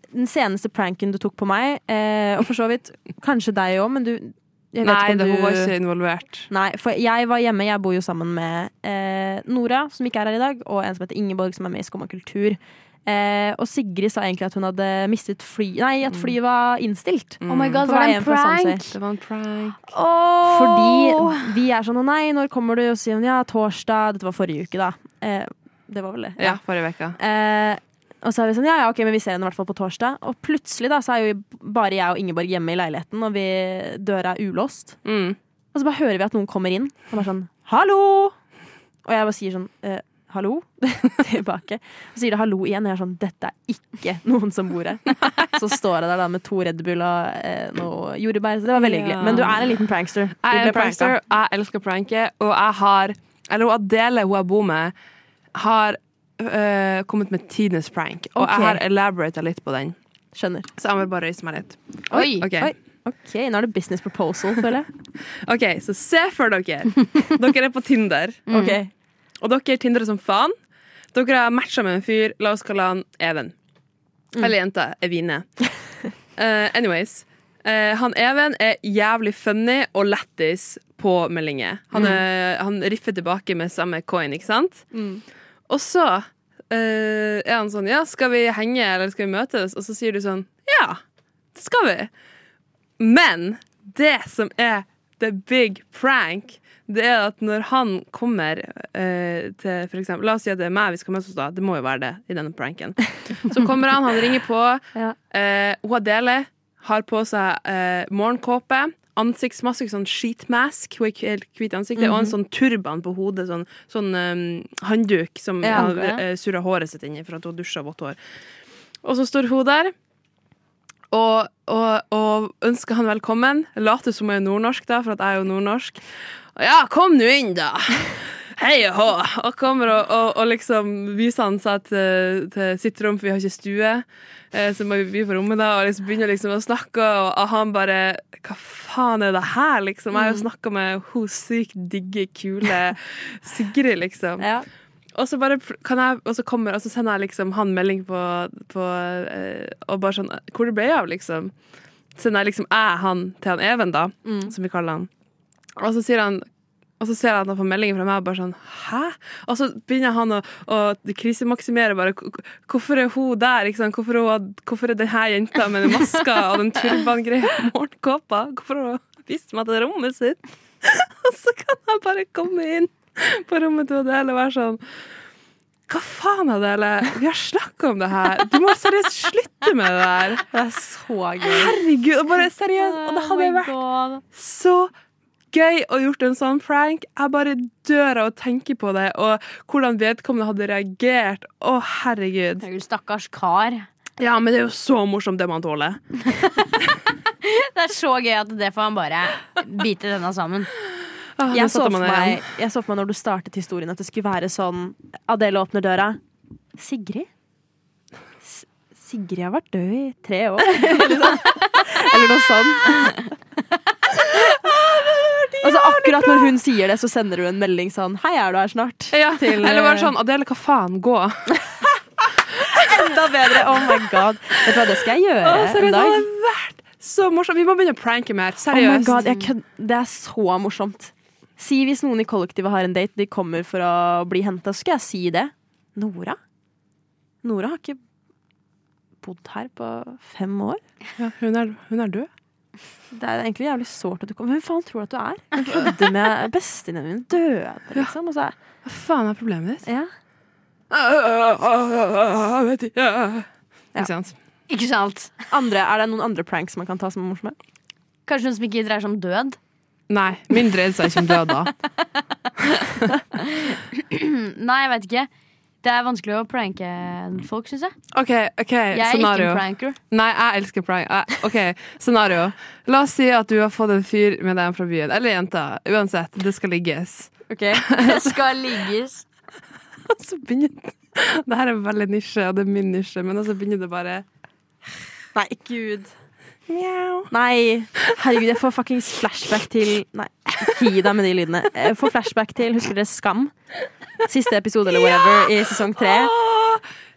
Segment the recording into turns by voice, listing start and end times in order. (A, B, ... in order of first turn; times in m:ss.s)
0:00.1-0:05.7 A
0:04.8-0:06.5 B
0:06.5-0:18.8 A
0:17.4-0:17.8 B
0:17.5-0:18.9 C
0:18.9-0:19.8 B
0:19.9-0:21.4 C
0:20.5-0:26.6 A
0:26.4-0:27.2 B
0:27.2-0:35.0 A
0:35.0-0:35.4 B
0:35.7-0:38.4 A
0:39.0-0:51.2 A
0:48.8-0:49.8 B
0:50.4-0:54.9 B
0:55.6-1:00.0 B
0:58.4-0:58.8 A
1:00.4-1:00.7 A
1:00.8-1:02.7 B
1:02.1-1:02.5 C
1:02.1-1:04.9 A
1:05.5-1:08.4 B
1:08.5-1:08.8 C
1:08.5-1:08.9 A
1:09.4-1:10.5 B
1:11.1-1:13.5 B
1:14.4-1:15.6 B
1:16.4-1:24.9 B
1:21.9-1:22.2 A
1:24.9-1:25.2 A
1:25.7-1:31.0 B
1:31.6-1:32.1 B
1:33.0-1:58.2 B
1:52.0-1:52.4 A
1:55.6-1:56.1 A
1:59.0-1:59.9 B
2:01.1-2:06.0 B
2:06.6-2:24.5 B
2:20.2-2:20.4 A
2:24.4-2:24.7 A
2:25.2-2:31.5 B
2:32.2-2:35.1 B
2:34.2-2:34.5 A
2:35.8-2:36.4 B
2:37.0-2:54.8 B
2:55.9-3:00.4 B
3:00.5-3:01.8 A
3:01.5-3:03.8 B
3:02.8-3:03.7 A
3:03.4-3:04.2 C
3:04.3-3:04.9 B
3:05.5-3:12.6 B
3:12.6-3:13.9 C
3:14.2-3:16.0 B
3:17.4-3:20.7 C
3:21.4-3:22.4 B
3:21.5-3:26.2 A
3:26.8-3:27.3 A
3:28.4-3:33.3 A
3:34.2-3:36.5 B
3:35.6-3:40.1 A
3:39.1-3:41.6 B
3:41.5-3:41.8 A
3:42.6-3:46.3 A
3:42.6-3:42.9 B
3:43.6-3:44.1 B
3:44.6-3:44.8 B
3:45.4-3:49.2 B
3:48.7-3:56.4 A
3:49.1-3:49.5 C
3:57.4-3:58.0 A
3:59.2-4:00.8 A
4:01.2-4:02.3 B
4:03.1-4:08.6 A
4:08.8-4:09.9 B
4:09.8-4:10.1 A
4:10.9-4:14.4 B
4:14.7-4:15.4 C
4:15.5-4:17.6 A
4:18.3-4:19.6 C
4:20.1-4:21.7 B
4:23.4-4:25.3 C
4:25.8-4:27.9 C
4:28.1-4:38.4 B
4:28.9-4:30.0 C
4:37.5-4:37.9 A
4:37.9-4:39.2 C
4:40.1-4:44.2 B
4:45.4-4:46.1 A
4:46.7-4:47.3 B
4:47.3-4:53.5 A
4:54.2-4:56.3 A
4:56.0-4:56.8 B